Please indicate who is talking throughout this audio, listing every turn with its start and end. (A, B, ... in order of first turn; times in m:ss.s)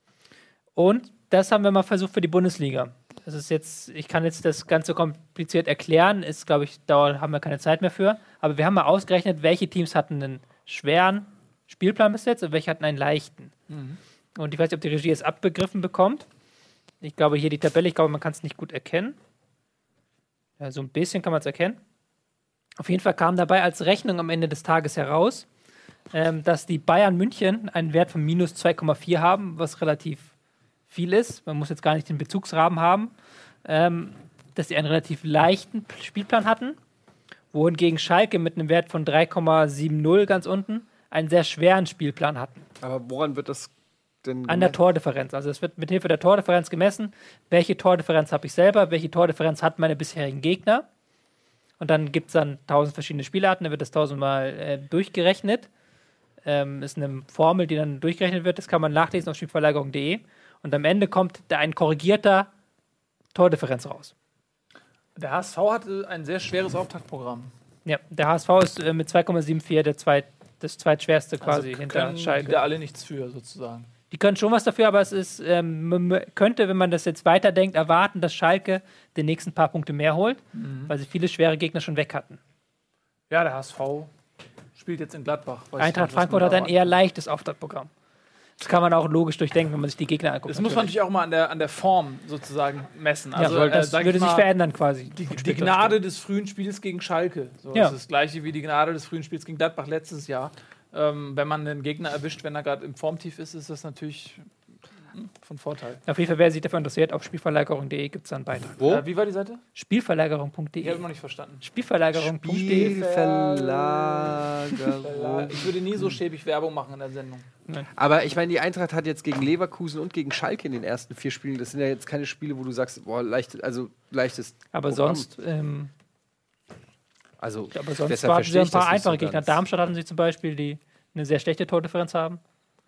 0:00.8-0:13.5 A
0:13.7-0:14.0 B
0:14.4-0:16.2 A
0:17.0-0:19.2 A
0:20.6-0:21.8 A
0:22.8-0:25.4 A
0:26.1-0:30.3 A
0:30.9-0:33.1 A
0:33.6-0:36.8 A
0:37.5-0:42.6 A
0:42.8-0:44.8 C
0:44.5-0:50.8 A
0:51.8-0:55.7 A
0:56.4-1:02.5 A
1:03.3-1:04.1 A
1:05.2-1:07.5 B
1:07.8-1:12.6 A
1:11.4-1:13.9 B
1:14.1-1:22.4 A
1:20.5-1:20.9 B
1:23.3-1:24.1 B
1:24.8-1:26.7 B
1:25.8-1:27.9 A
1:28.6-1:30.9 A
1:30.5-1:34.4 B
1:33.4-1:36.0 A
1:35.1-1:44.4 B
1:45.1-1:46.0 B
1:46.1-1:48.8 A
1:48.8-1:49.0 C
1:48.8-1:49.6 B
1:49.7-1:51.0 A
1:50.8-1:51.6 B
1:51.6-1:53.0 A
1:52.1-1:55.8 C
1:52.7-1:54.4 B
1:55.0-1:57.5 B
1:58.0-2:05.3 C
2:04.7-2:05.9 A
2:07.4-2:09.6 C
2:07.7-2:12.4 A